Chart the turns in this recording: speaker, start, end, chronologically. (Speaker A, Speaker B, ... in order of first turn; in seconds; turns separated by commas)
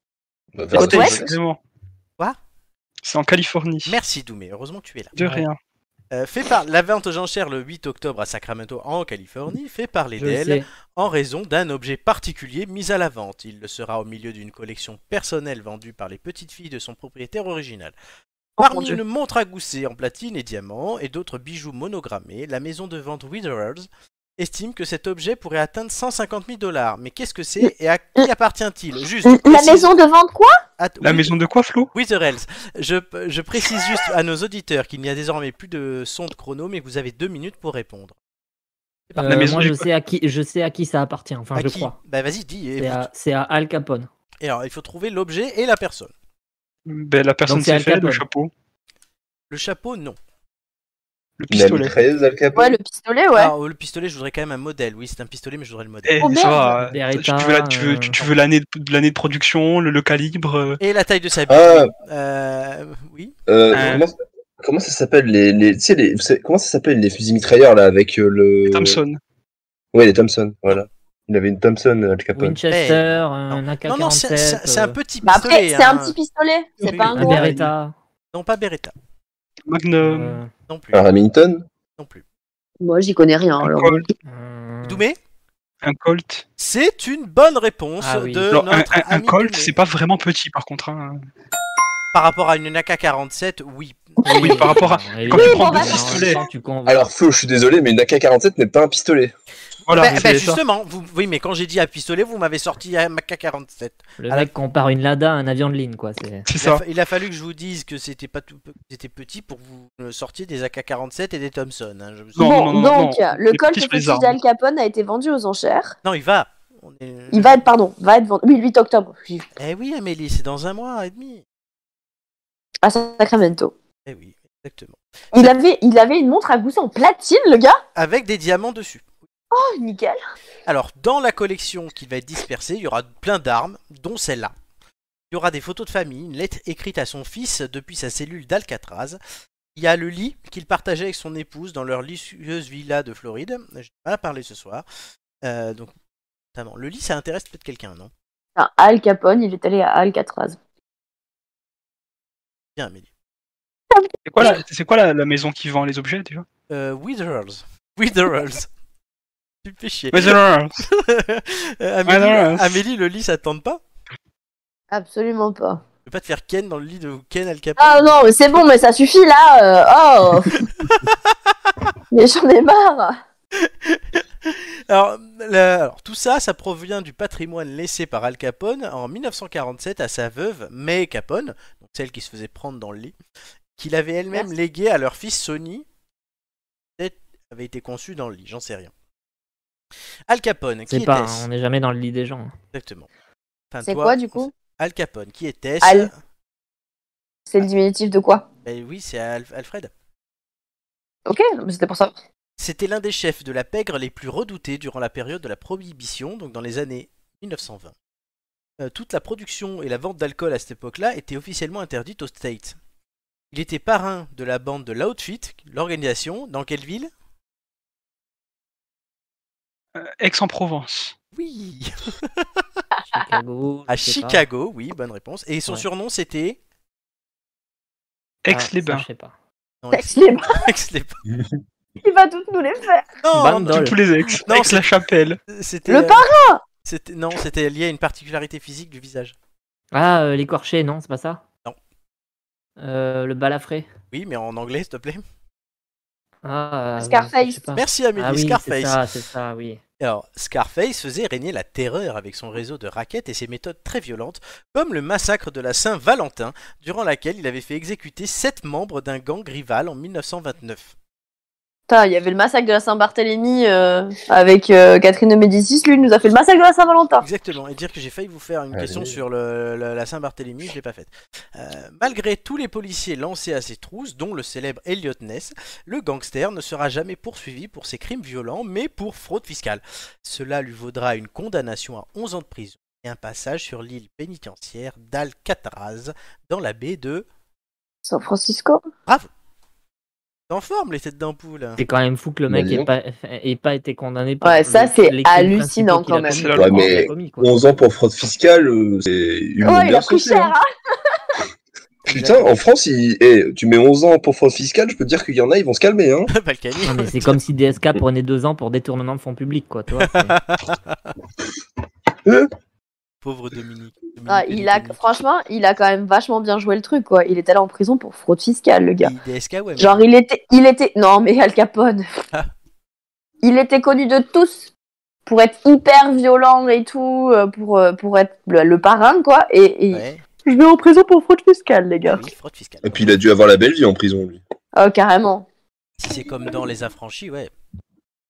Speaker A: 0.6-1.4, Speaker B: 0.7-1.6, Speaker C: 0.8-1.1, Speaker B: 3.0-4.0, Speaker D: 3.9-5.2, Speaker B: 5.2-5.6, Speaker E: 5.2-5.4, Speaker D: 6.1-17.9, Speaker E: 10.2-10.6, Speaker C: 18.6-19.0, Speaker D: 18.6-29.9, Speaker C: 29.2-30.6, Speaker D: 30.8-31.3, Speaker B: 31.0-31.9, Speaker D: 31.9-38.1, Speaker D: 39.1-39.5, Speaker E: 39.1-41.9, Speaker B: 39.2-39.9, Speaker D: 41.5-43.0, Speaker E: 42.8-44.1, Speaker D: 44.4-46.1, Speaker B: 46.9-48.5, Speaker E: 47.5-48.2, Speaker D: 49.5-50.2, Speaker B: 51.4-52.0, Speaker A: 51.5-52.8, Speaker C: 52.5-53.5, Speaker D: 53.4-56.4, Speaker B: 56.0-60.8, Speaker C: 56.2-56.8, Speaker E: 56.9-58.2, Speaker D: 60.8-63.3, Speaker A: 61.5-61.9, Speaker A: 63.5-69.0, Speaker B: 63.7-64.0, Speaker B: 68.7-69.2, Speaker A: 69.9-72.6, Speaker E: 72.3-75.0, Speaker D: 72.7-76.1, Speaker C: 75.2-77.5, Speaker D: 76.8-77.2, Speaker B: 77.1-77.7, Speaker E: 77.1-77.9, Speaker D: 78.3-78.9, Speaker B: 79.7-80.4, Speaker E: 80.0-80.5, Speaker D: 80.7-81.0, Speaker A: 80.9-81.6, Speaker D: 82.0-82.2, Speaker C: 82.8-84.0, Speaker B: 83.6-84.0, Speaker E: 84.2-85.0, Speaker D: 84.8-85.2, Speaker B: 85.8-86.4, Speaker D: 86.6-89.8, Speaker E: 88.0-88.5, Speaker B: 88.5-91.2, Speaker D: 92.1-94.7, Speaker E: 94.2-97.1, Speaker B: 94.3-96.4, Speaker C: 95.3-96.4, Speaker A: 96.8-99.3, Speaker B: 99.9-100.6, Speaker D: 99.9-104.5, Speaker E: 104.2-106.5, Speaker B: 106.5-106.8, Speaker D: 106.6-112.6, Speaker B: 112.3-114.4, Speaker C: 112.4-116.0, Speaker D: 116.0-117.6, Speaker C: 117.3-119.5, Speaker D: 119.6-121.4, Speaker C: 122.8-123.7, Speaker D: 124.0-125.5, Speaker C: 125.3-127.8, Speaker D: 127.9-129.1, Speaker C: 129.5-130.2, Speaker D: 130.7-134.5, Speaker D: 135.3-139.2, Speaker D: 139.7-144.8, Speaker D: 145.4-145.9, Speaker D: 146.5-148.1, Speaker C: 148.6-150.6, Speaker D: 152.8-153.1, Speaker C: 153.9-154.6, Speaker B: 154.3-156.4, Speaker D: 156.7-158.7, Speaker D: 159.6-163.8, Speaker B: 160.1-160.8, Speaker B: 162.1-162.8, Speaker C: 164.9-165.8, Speaker D: 166.1-168.1, Speaker C: 167.8-170.6, Speaker D: 170.5-171.2, Speaker C: 172.1-173.2, Speaker D: 173.6-183.2, Speaker D: 183.8-185.8, Speaker D: 187.0-188.9, Speaker D: 190.3-191.5, Speaker E: 190.9-192.5, Speaker D: 192.7-193.1, Speaker D: 193.7-196.1, Speaker C: 193.8-194.5, Speaker C: 195.8-196.1, Speaker C: 197.5-198.4, Speaker D: 198.6-199.9, Speaker C: 201.3-202.1, Speaker D: 202.6-207.9, Speaker D: 208.8-212.8, Speaker D: 213.5-217.1, Speaker B: 219.9-221.1, Speaker D: 221.3-222.6, Speaker E: 223.1-224.4, Speaker D: 223.9-226.6, Speaker B: 228.4-229.0, Speaker E: 228.5-229.3, Speaker D: 229.8-231.2, Speaker C: 229.9-230.6, Speaker C: 232.0-233.2, Speaker D: 233.2-233.9, Speaker E: 233.3-234.0, Speaker B: 233.7-235.4, Speaker D: 234.5-234.9, Speaker D: 235.5-236.3, Speaker C: 235.9-236.6, Speaker D: 236.8-239.3, Speaker E: 239.9-241.4, Speaker E: 242.8-243.9, Speaker D: 244.1-245.2, Speaker E: 246.4-249.8, Speaker C: 247.0-247.6, Speaker D: 247.7-249.0, Speaker D: 250.0-260.9, Speaker C: 261.9-267.2, Speaker D: 267.2-287.2, Speaker A: 268.7-269.2, Speaker C: 288.1-288.9, Speaker D: 290.5-291.8, Speaker E: 291.8-297.7, Speaker A: 292.5-292.9, Speaker C: 294.4-296.5, Speaker B: 296.2-297.0, Speaker A: 296.6-300.5, Speaker C: 299.6-300.6, Speaker D: 302.1-302.6, Speaker A: 302.1-306.3, Speaker D: 306.3-307.4, Speaker E: 306.8-310.4, Speaker D: 309.9-311.0, Speaker A: 312.2-312.5, Speaker D: 313.2-315.0, Speaker C: 314.3-319.1, Speaker D: 319.0-320.0, Speaker C: 319.8-322.1, Speaker C: 323.4-324.7, Speaker C: 325.2-332.2, Speaker D: 329.9-330.2, Speaker D: 332.0-333.2, Speaker A: 332.8-334.4, Speaker C: 334.7-335.4, Speaker D: 336.0-337.5